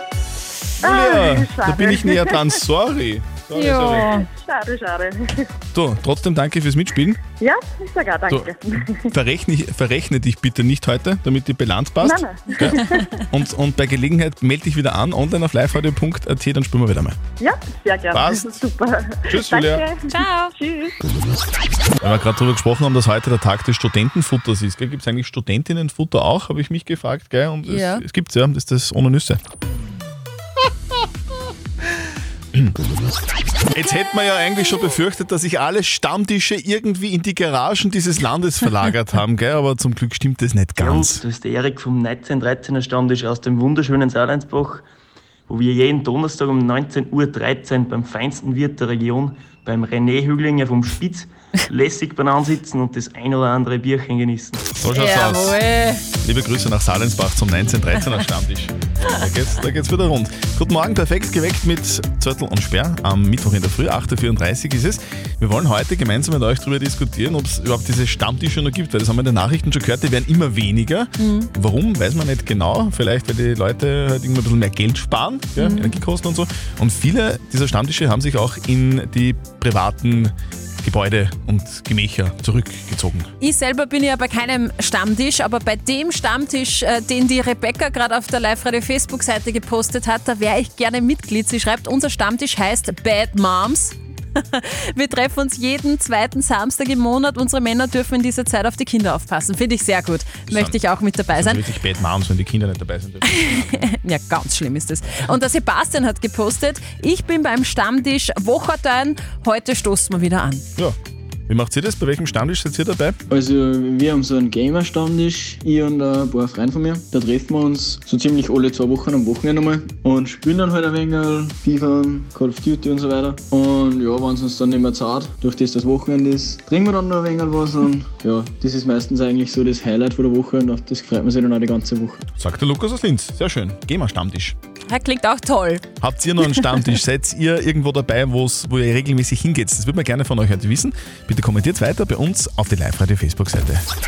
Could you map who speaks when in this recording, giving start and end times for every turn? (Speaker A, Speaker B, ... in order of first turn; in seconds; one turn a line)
Speaker A: 0.8-4.1
Speaker B: 0.8-2.4
Speaker C: 3.5-4.3
Speaker B: 4.2-5.5
Speaker A: 5.7-7.2
Speaker B: 7.4-8.7
Speaker A: 8.3-17.1
Speaker B: 12.0-12.5
Speaker B: 17.4-20.9
Speaker A: 18.1-18.6
Speaker A: 19.3-19.9
Speaker C: 20.1-20.5
Speaker A: 22.0-29.4
Speaker C: 27.6-28.0
Speaker A: 33.7-41.2
Speaker D: 40.8-44.9
Speaker D: 45.5-54.6
Speaker A: 54.8-55.6
Speaker C: 54.9-56.0
Speaker A: 56.2-83.3
Speaker C: 71.2-71.5
Speaker C: 75.6-76.0
Speaker C: 83.4-101.6
Speaker A: 100.5-100.8
Speaker A: 101.3-103.7
Speaker C: 103.2-110.6
Speaker A: 111.5-113.2
Speaker E: 113.3-132.2
Speaker A: 132.4-134.5
Speaker C: 134.9-135.9
Speaker A: 136.0-143.8